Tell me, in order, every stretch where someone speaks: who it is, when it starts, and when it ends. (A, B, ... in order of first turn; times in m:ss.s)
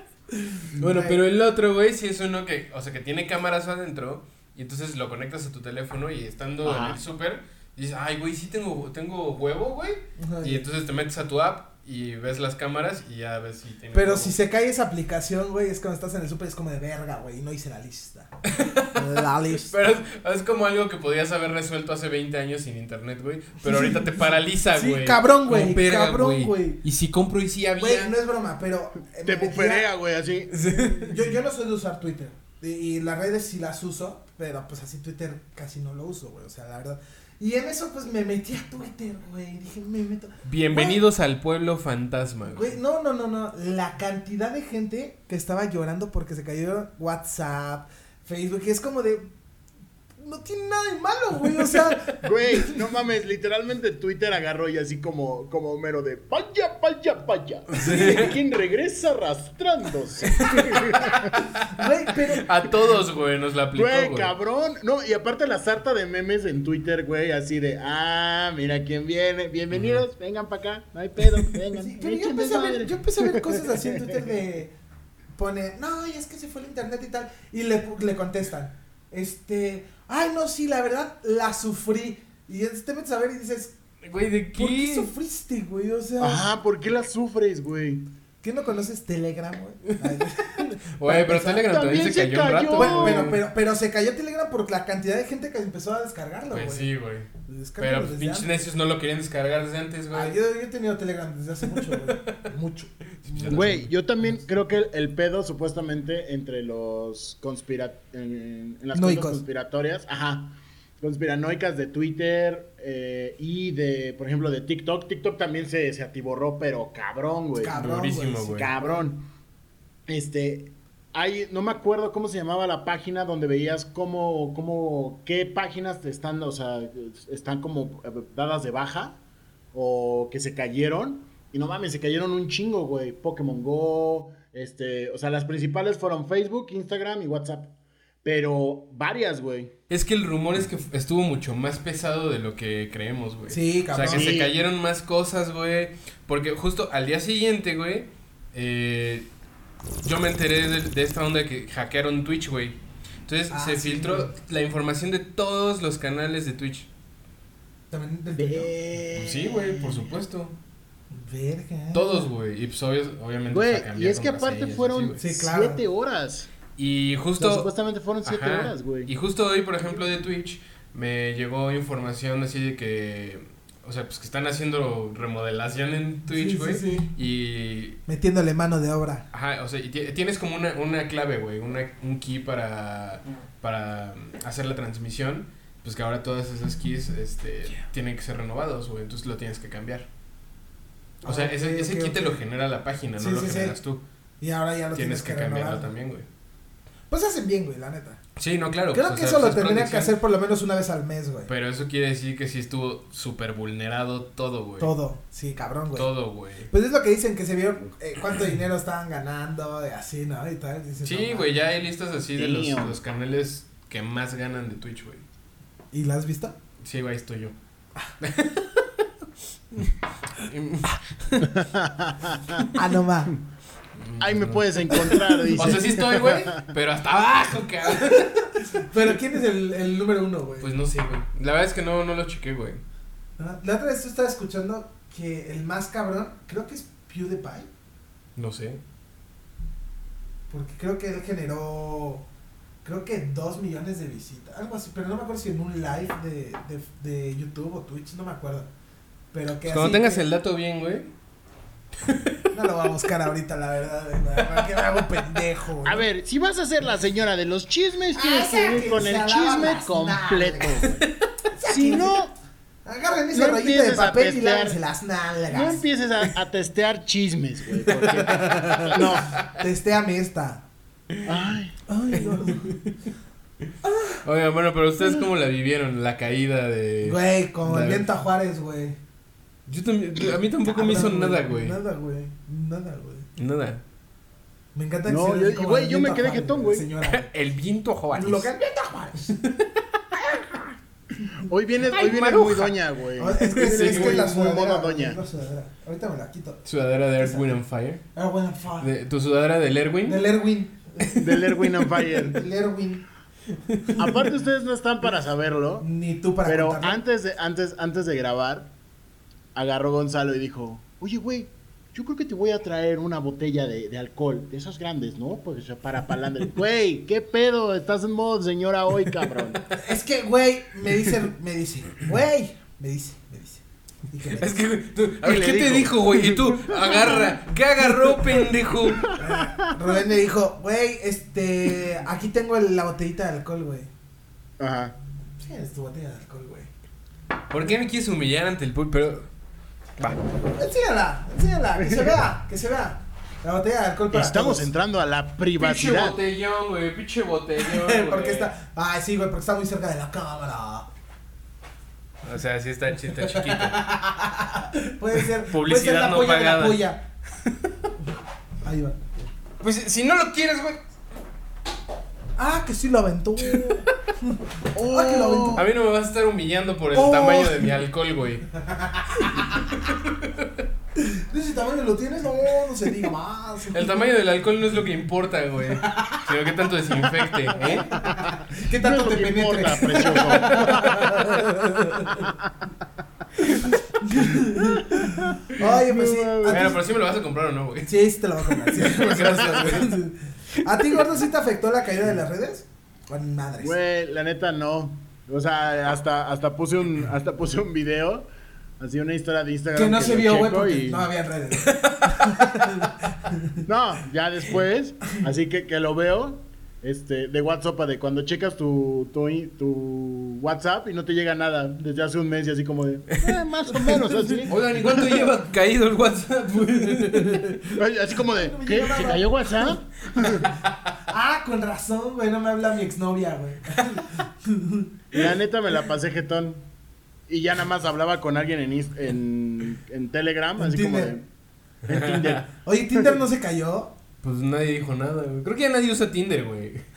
0:00.7-0:01.2 A
0:00.7-0:14.4 B
0:06.6-0:07.0 C
0:10.2-0:10.7 A
0:13.9-0:18.3 A
0:18.4-0:19.0 B
0:19.0-0:19.7 A
0:19.6-0:28.1 B
0:23.6-0:26.8 A
0:27.8-0:29.9 A
0:29.2-0:30.8 C
0:30.5-0:31.1 B
0:30.9-0:41.0 A
0:40.4-0:42.8 B
0:42.5-0:49.3 A
0:50.2-0:52.8 A
0:51.8-0:52.1 B
0:52.2-1:01.4 C
0:57.7-0:58.3 B
1:00.4-1:04.3 B
1:01.7-1:03.0 A
1:03.7-1:14.1 C
1:09.7-1:10.0 B
1:11.8-1:14.7 A
1:15.4-1:23.7 A
1:24.0-1:25.1 B
1:24.5-1:26.5 A
1:26.2-1:28.1 C
1:28.4-1:31.7 A
1:31.0-1:33.3 B
1:31.6-1:33.4 C
1:32.7-1:36.9 A
1:36.5-1:37.3 B
1:37.5-1:38.5 A
1:37.8-1:40.4 B
1:40.1-1:43.8 A
1:41.7-1:42.4 B
1:43.2-1:43.9 B
1:43.5-1:57.8 C
1:48.9-1:49.4 A
1:57.6-1:58.5 A
1:57.7-1:58.7 B
1:58.5-1:59.2 C
2:00.1-2:09.2 C
2:09.7-2:17.7 C
2:18.2-2:19.7 C
2:19.9-2:29.3 B
2:23.5-2:24.4 A
2:24.1-2:24.5 C
2:30.0-2:36.9 B
2:33.5-2:34.3 A
2:37.9-2:38.7 A
2:38.4-2:39.8 C
2:39.1-2:40.6 B
2:41.1-2:42.3 A
2:41.9-2:45.2 B
2:43.5-2:46.5 C
2:45.2-2:45.8 A
2:46.8-2:47.7 B
2:47.4-2:49.1 C
2:48.2-2:58.0 B
2:56.3-2:57.1 A
2:58.1-2:59.3 A
2:59.3-3:10.1 B
3:11.2-3:12.4 A
3:11.2-3:14.0 B
3:13.2-3:13.8 A
3:14.4-3:15.9 A
3:15.0-3:16.3 B
3:17.1-3:18.2 A
3:18.4-3:20.2 B
3:18.9-3:21.5 A
3:21.5-3:24.9 B
3:24.8-3:26.2 A
3:26.0-3:26.7 B
3:26.7-3:31.6 A
3:31.0-3:35.2 B
3:32.4-3:33.0 C
3:35.9-3:36.6 A
3:36.8-3:37.6 B
3:38.2-3:38.9 B
3:39.8-3:41.5 B
3:41.6-3:42.7 C
3:42.7-3:43.3 A
3:44.0-3:44.9 B
3:44.2-3:46.7 C
3:44.9-3:46.4 A
3:45.6-3:48.5 B
3:48.1-3:50.7 A
3:50.6-3:52.8 B
3:53.4-3:57.7 A
3:58.4-3:58.8 B
4:00.5-4:02.3 A
4:02.8-4:08.7 A
4:09.3-4:10.2 A
4:09.7-4:11.1 B
4:12.0-4:12.4 B
4:12.5-4:16.1 A
4:14.4-4:14.8 B
4:15.8-4:21.0 C
4:18.1-4:21.0 A
4:21.5-4:22.2 A
4:21.6-4:22.3 C
4:22.8-4:25.8 A
4:23.3-4:24.8 C
4:25.5-4:29.4 C
4:27.9-4:30.6 A
4:31.2-4:31.8 C
4:31.9-4:32.7 A
4:32.2-4:32.9 B
4:33.8-4:34.2 A
4:34.2-4:38.1 B
4:35.0-4:35.3 A
4:37.0-4:39.0 A
4:39.7-4:41.8 B
4:40.6-4:43.3 A
4:43.4-4:43.8 B
4:44.7-4:47.3 A
4:45.1-4:46.8 C
4:47.1-4:48.5 B
4:48.1-4:49.3 A
4:49.2-4:49.6 B
4:51.5-4:55.2 C
4:51.9-4:52.8 B
4:53.2-4:56.6 A
4:53.5-4:54.2 B
4:56.6-4:58.0 B
4:57.2-4:57.6 A
4:58.1-4:58.9 A
4:58.8-5:00.2 B
5:00.1-5:01.3 A
5:01.2-5:02.4 C
5:02.2-5:03.0 A
5:03.7-5:04.0 B
5:04.0-5:05.9 C
5:05.8-5:07.0 A
5:06.4-5:08.7 C
5:09.6-5:19.6 C
5:19.8-5:24.5 A
5:24.3-5:29.1 B
5:25.2-5:27.3 C
5:29.0-5:29.4 C
5:29.1-5:33.9 A
5:34.6-5:35.0 C
5:35.4-5:36.7 A
5:37.5-5:39.3 B
5:40.0-5:40.3 B
5:40.4-5:44.7 A
5:41.8-5:42.1 C
5:44.1-5:46.2 C
5:45.6-5:48.5 B
5:47.6-5:50.9 A
5:52.2-5:53.8 B
5:53.2-5:57.1 A
5:55.2-5:56.8 B
5:58.6-5:59.3 A
5:59.6-6:00.8 B
6:02.4-6:05.6 A
6:03.6-6:03.9 B
6:04.7-6:05.6 C
6:05.6-6:08.4 B
6:06.9-6:07.8 A
6:08.5-6:09.8 A
6:09.3-6:10.6 B
6:11.0-6:14.0 A
6:13.7-6:17.9 B
6:15.7-6:16.4 A
6:17.6-6:20.9 C
6:18.5-6:22.3 A
6:20.2-6:21.1 B
6:23.4-6:26.8 A
6:24.6-6:26.7 C
6:26.5-6:30.0 B
6:27.9-6:33.8 A
6:30.6-6:31.0 B
6:33.6-6:38.2 C
6:38.8-6:41.1 C
6:39.7-6:43.6 A
6:41.6-6:42.3 B
6:43.6-6:55.0 C
6:53.8-6:54.5 A
6:54.5-6:57.7 B
6:56.8-6:57.5 A
6:57.7-7:00.5 C
6:58.3-6:59.7 A
7:01.1-7:04.9 A
7:03.8-7:04.0 B
7:05.1-7:06.6 C
7:07.3-7:11.2 C
7:10.6-7:11.1 A
7:11.9-7:12.5 B
7:11.9-7:13.1 C
7:12.6-7:13.9 A
7:14.2-7:16.8 B